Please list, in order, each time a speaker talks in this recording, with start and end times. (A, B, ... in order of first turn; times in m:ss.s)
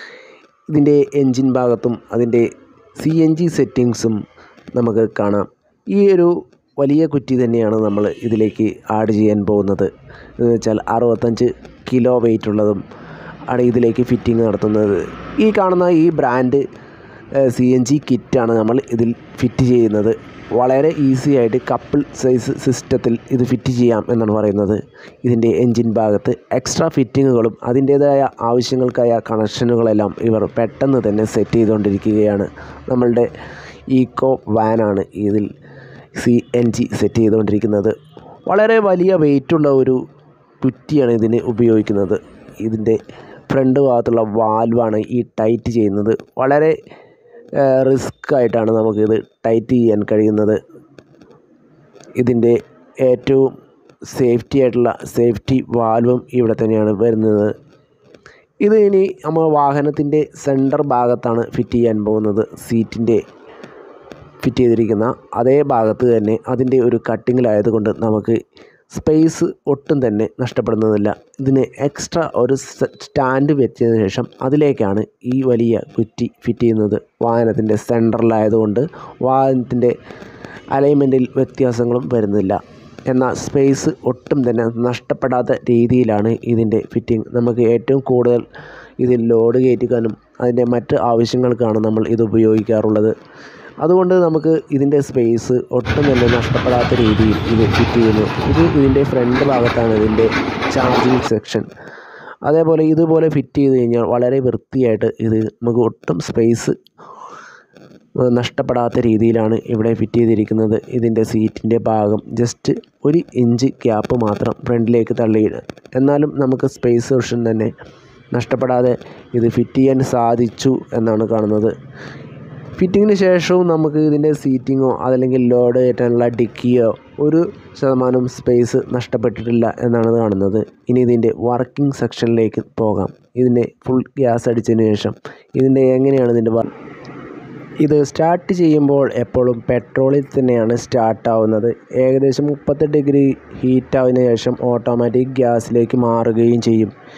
0:00.7-0:04.2 A
0:04.7-0:12.8 A
0:13.5-0:16.6 A
0:17.4-0:33.3 A
0:33.9-0:35.5 A
0:36.2-0:37.9 A
0:38.5-0:40.0 A
0:40.6-0:46.7 A
0:47.6-0:50.6 A
0:52.2-0:53.5 A
0:54.1-0:57.5 A
0:58.6-1:03.2 A
1:04.4-1:08.4 A
1:08.9-1:19.9 A
1:20.7-1:28.4 A
1:29.0-1:33.1 A
1:33.8-1:41.6 A
1:42.4-1:46.8 A
1:48.2-1:57.7 A
1:58.3-2:01.7 A
2:02.8-2:16.7 A
2:17.8-2:26.9 A